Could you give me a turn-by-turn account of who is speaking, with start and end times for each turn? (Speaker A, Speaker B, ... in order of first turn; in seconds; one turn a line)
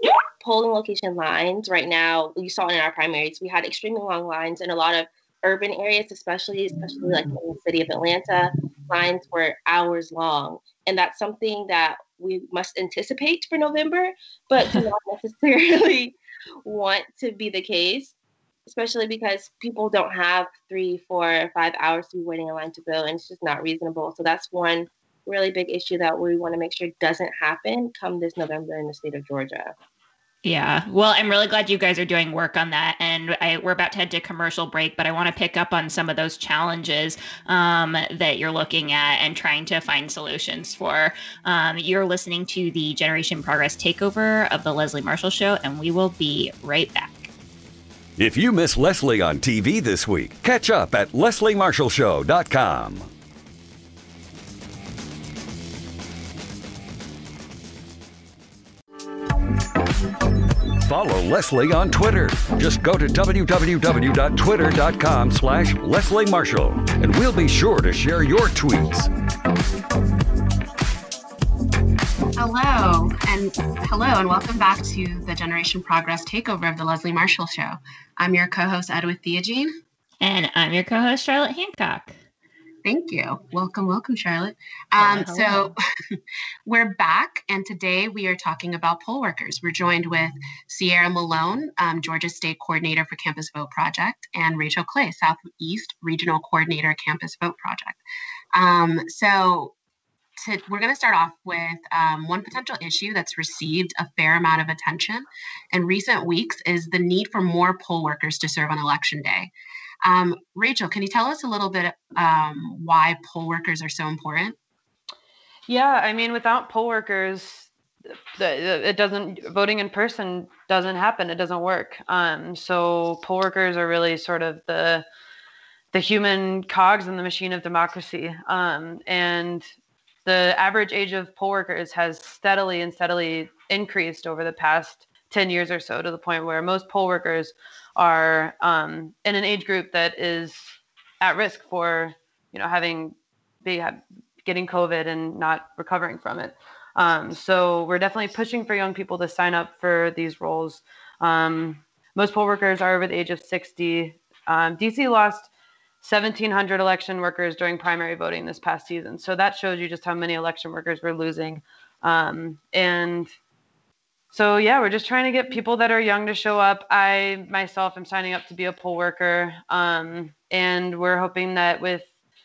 Speaker A: 0.3-18.1
Speaker A: 18.7-29.7
Speaker B: 30.4-47.3
Speaker C: 48.2-53.1
Speaker C: 60.8-69.1
Speaker D: 72.3-79.7
Speaker B: 80.2-82.2
Speaker D: 82.8-98.0
Speaker B: 85.0-85.7
Speaker D: 98.5-99.7
Speaker D: 100.4-109.5
Speaker D: 110.0-114.5
Speaker E: 115.7-117.7
Speaker E: 118.3-125.0
Speaker E: 125.9-129.7
Speaker E: 130.2-155.5
Speaker E: 156.0-163.3
Speaker E: 164.3-172.1